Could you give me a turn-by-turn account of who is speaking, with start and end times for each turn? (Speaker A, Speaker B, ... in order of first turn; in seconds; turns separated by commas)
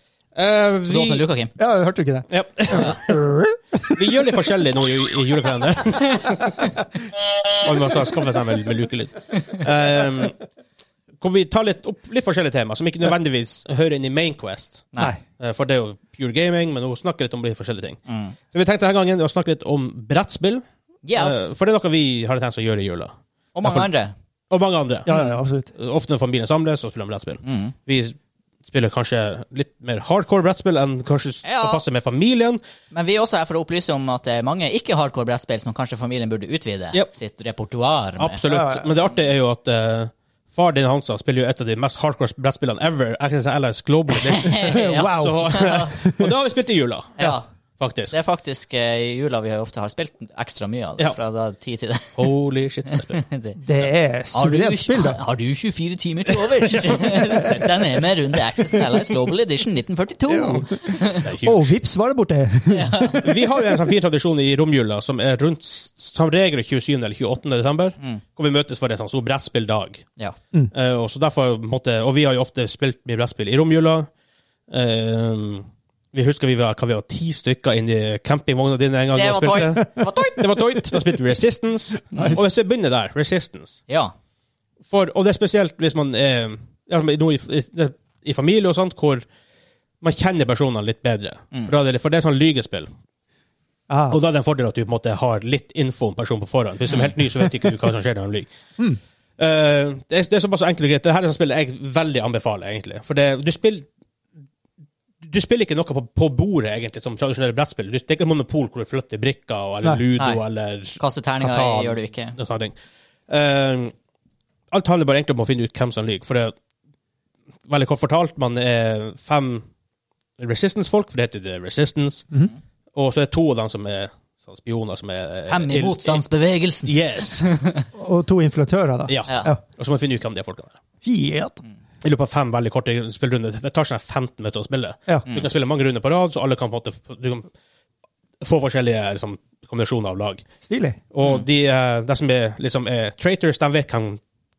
Speaker A: 0.3-1.2, Speaker B: 0.8-1.5, Speaker C: 1.6-4.4, Speaker A: 2.3-3.1, Speaker A: 3.9-6.6, Speaker A: 7.6-10.4, Speaker A: 11.2-18.0, Speaker B: 18.1-18.3, Speaker A: 18.5-20.6, Speaker B: 21.0-21.5, Speaker A: 21.1-23.1, Speaker B: 23.5-24.1, Speaker A: 23.6-23.9, Speaker A: 24.5-25.1, Speaker C: 25.1-25.7, Speaker B: 25.1-25.4, Speaker A: 25.7-28.1, Speaker B: 27.4-27.7, Speaker A: 28.7-32.6, Speaker B: 31.4-31.8, Speaker B: 32.9-38.4, Speaker A: 38.2-48.1, Speaker C: 38.5-38.9, Speaker B: 44.2-45.9, Speaker C: 44.6-46.3, Speaker B: 47.2-47.5, Speaker B: 48.1-52.3, Speaker A: 52.1-53.2, Speaker B: 52.9-53.6, Speaker C: 53.6-55.2, Speaker B: 54.3-61.3, Speaker C: 57.1-57.4, Speaker C: 60.3-60.6, Speaker A: 61.2-61.7, Speaker C: 61.4-63.2, Speaker B: 62.7-63.3, Speaker A: 63.2-70.0, Speaker A: 70.7-74.1, Speaker A: 74.7-83.8, Speaker B: 79.1-80.4, Speaker C: 82.1-82.4, Speaker B: 82.1-82.4, Speaker B: 83.9-84.1, Speaker A: 84.9-89.2, Speaker A: 90.0-92.9, Speaker C: 93.9-94.2, Speaker A: 94.1-98.5, Speaker A: 99.4-103.9, Speaker A: 105.2-112.7, Speaker B: 110.2-110.4, Speaker B: 111.0-112.3, Speaker A: 113.3-113.9, Speaker A: 114.7-116.5, Speaker A: 117.7-119.6, Speaker A: 120.4-122.3, Speaker A: 122.9-126.2, Speaker B: 125.5-127.9, Speaker A: 126.8-127.5, Speaker C: 128.0-129.6, Speaker A: 129.1-130.8, Speaker B: 129.2-129.5, Speaker C: 131.0-131.6, Speaker A: 132.0-137.5, Speaker A: 138.4-140.4, Speaker C: 140.6-141.0, Speaker A: 141.1-144.2